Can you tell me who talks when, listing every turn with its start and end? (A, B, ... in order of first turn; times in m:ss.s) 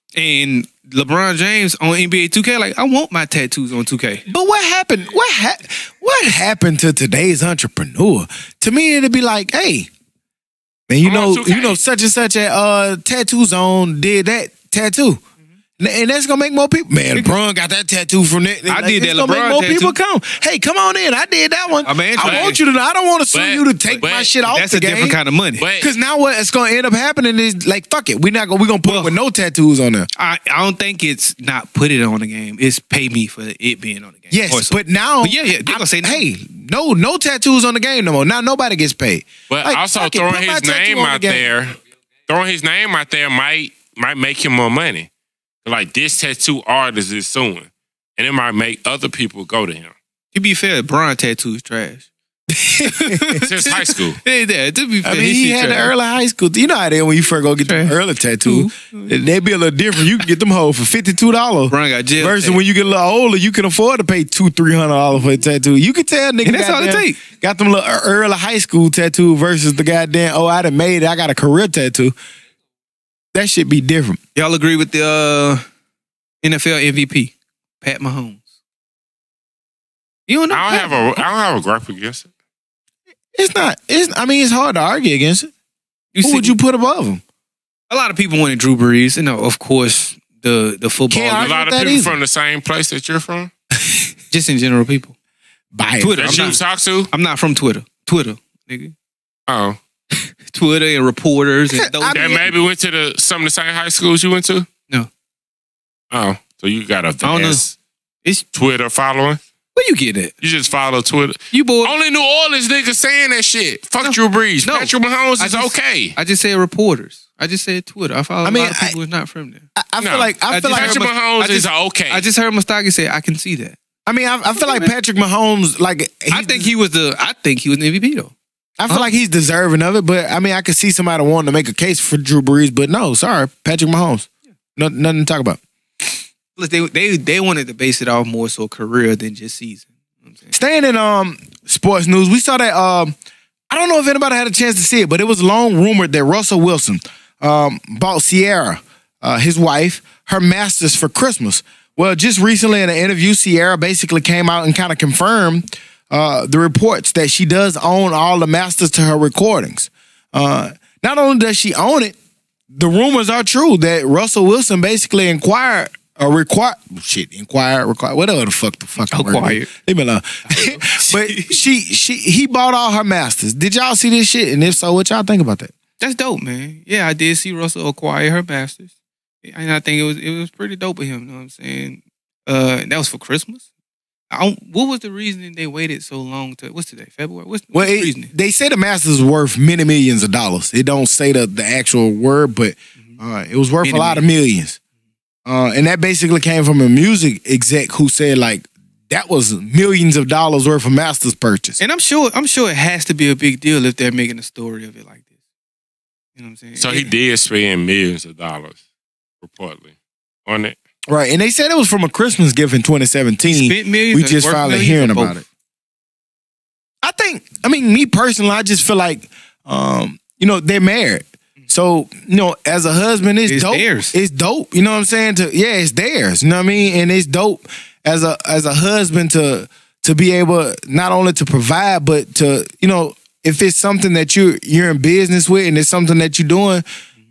0:00.2-0:04.2 A
0:04.3-0:09.9 B
0:10.9-0:15.2 B
0:11.0-0:11.8 C
0:15.8-0:25.2 B
0:18.7-0:20.0 A
0:21.8-0:22.6 A
0:22.2-0:22.6 C
0:23.3-0:24.3 C
0:24.4-0:25.6 A
0:25.6-0:25.9 C
0:25.8-0:30.1 B
0:28.8-0:29.2 A
0:30.2-0:36.3 A
0:34.3-0:41.4 B
0:39.5-0:45.1 C
0:45.6-0:50.0 C
0:50.3-0:52.1 A
0:52.5-0:53.4 B
0:52.8-0:55.9 A
0:53.4-0:54.2 C
0:55.0-1:12.2 B
0:57.6-0:59.2 A
1:01.7-1:02.6 A
1:06.4-1:07.2 A
1:13.3-1:14.2 B
1:14.4-1:15.6 A
1:16.4-1:18.5 A
1:20.3-1:21.2 A
1:20.5-1:22.3 C
1:23.4-1:25.5 B
1:26.1-1:26.6 A
1:26.2-1:27.2 B
1:27.9-1:31.5 A
1:31.1-1:32.2 B
1:31.4-1:33.5 C
1:33.8-1:34.1 B
1:34.3-1:35.2 A
1:35.7-1:36.6 B
1:36.0-1:36.6 A
1:36.2-1:37.1 C
1:37.1-1:38.9 A
1:39.5-1:39.8 C
1:40.1-1:42.3 A
1:41.7-1:42.5 B
1:42.1-1:44.7 C
1:46.1-1:47.7 C
1:47.2-1:47.6 A
1:48.5-1:49.4 C
1:49.8-1:50.3 A
1:50.4-1:56.2 C
1:51.5-1:51.9 A
1:54.0-1:59.7 A
1:58.4-1:59.0 B
1:59.8-2:01.0 B
2:00.0-2:02.3 C
2:00.5-2:03.8 A
2:04.1-2:06.7 B
2:04.5-2:04.9 A
2:06.3-2:08.4 A
2:08.8-2:15.6 B
2:16.6-2:20.5 A
2:20.5-2:23.1 B
2:23.7-2:42.2 B
2:42.7-2:55.7 B
2:49.1-2:49.7 A
2:50.5-2:51.6 A
2:56.0-2:58.9 A
2:59.4-3:03.6 A
3:04.3-3:08.3 A
3:07.7-3:14.8 B
3:13.8-3:14.2 A
3:15.5-3:21.8 B
3:21.8-3:25.2 A
3:26.4-3:27.1 A
3:26.8-3:28.8 C
3:29.4-3:30.0 C
3:30.5-3:30.8 C
3:31.1-3:35.4 B
3:33.5-3:35.4 A
3:37.0-3:56.8 B
3:43.5-3:44.1 A